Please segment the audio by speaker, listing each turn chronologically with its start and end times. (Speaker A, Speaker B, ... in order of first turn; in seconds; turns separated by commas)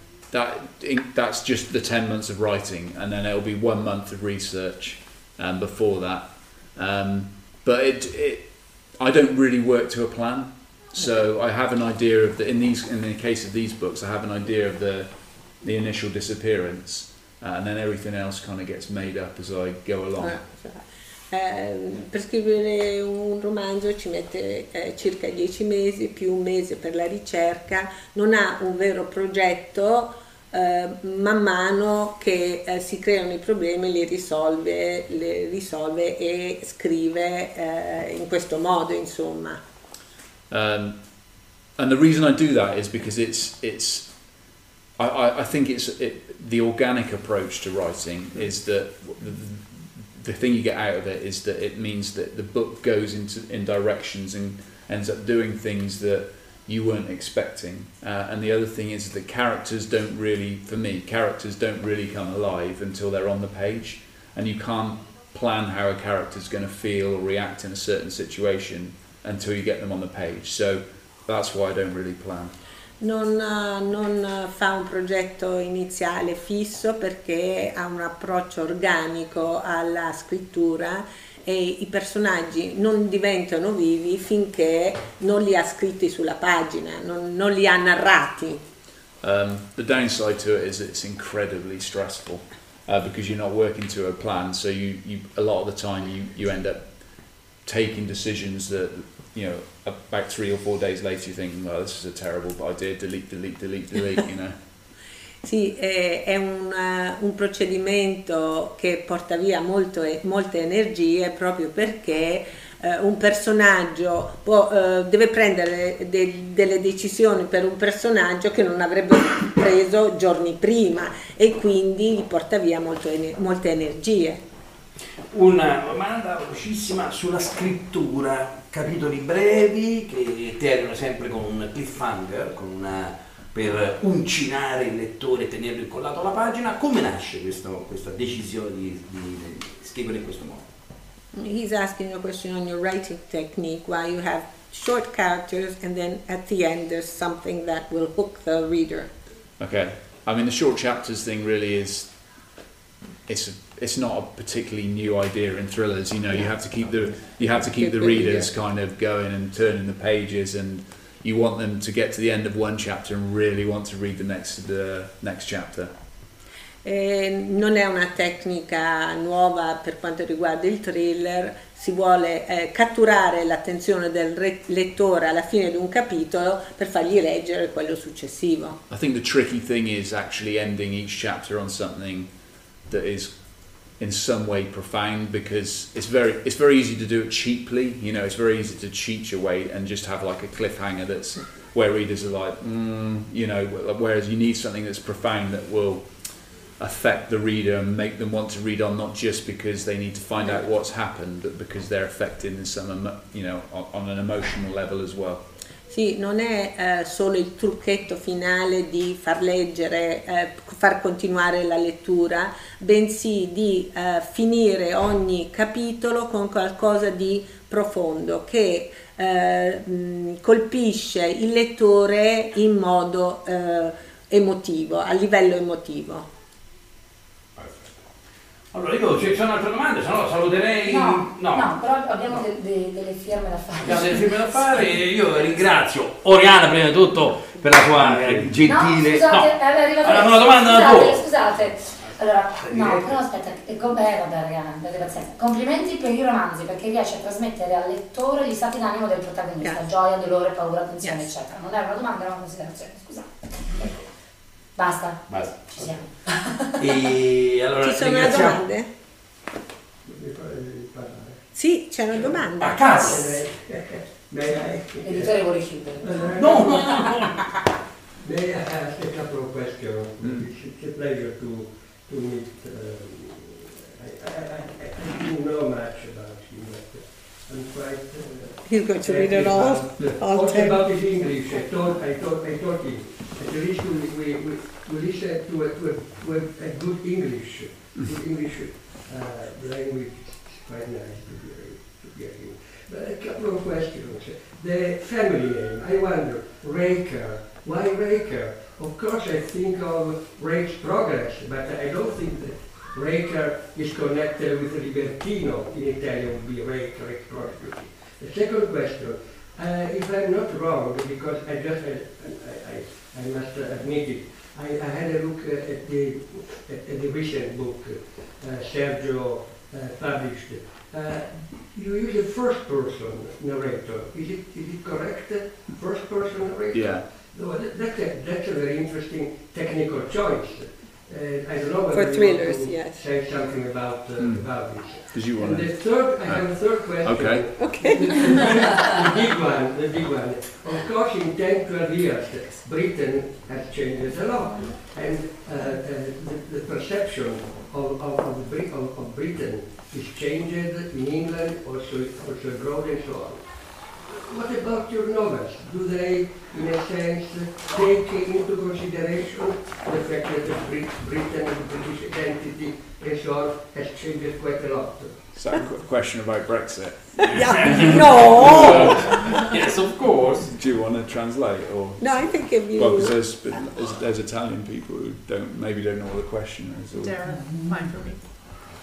Speaker A: 0.3-20.4, Speaker B: 20.2-39.6, Speaker A: 40.5-41.0, Speaker A: 41.8-44.1, Speaker A: 45.0-72.5, Speaker B: 73.0-88.6, Speaker A: 89.2-104.6, Speaker B: 105.4-124.4, Speaker C: 125.3-140.7, Speaker B: 141.3-149.1, Speaker A: 149.6-152.2, Speaker A: 153.3-165.9, Speaker B: 156.3-158.5, Speaker B: 166.8-178.8, Speaker A: 178.9-182.3, Speaker A: 182.9-196.1, Speaker A: 196.8-205.4, Speaker B: 205.9-226.3, Speaker C: 227.6-228.0, Speaker C: 228.7-231.7, Speaker D: 230.8-235.1, Speaker C: 233.8-239.5, Speaker D: 238.6-253.3, Speaker C: 240.0-241.2, Speaker C: 242.6-243.2, Speaker D: 254.8-257.1, Speaker C: 255.3-255.9, Speaker C: 256.8-258.6, Speaker B: 257.8-258.9, Speaker E: 260.1-261.5, Speaker B: 261.6-263.1, Speaker E: 262.1-265.4, Speaker C: 262.6-263.4, Speaker D: 265.0-267.1, Speaker E: 266.0-267.0, Speaker C: 266.4-267.5, Speaker E: 268.2-365.2, Speaker A: 270.2-270.5, Speaker B: 278.7-280.9, Speaker A: 326.7-327.1, Speaker B: 331.9-333.0, Speaker A: 334.2-337.7, Speaker B: 337.6-338.7, Speaker A: 365.3-369.6, Speaker C: 367.2-370.5, Speaker B: 367.3-369.3, Speaker A: 370.4-377.4, Speaker B: 372.0-373.2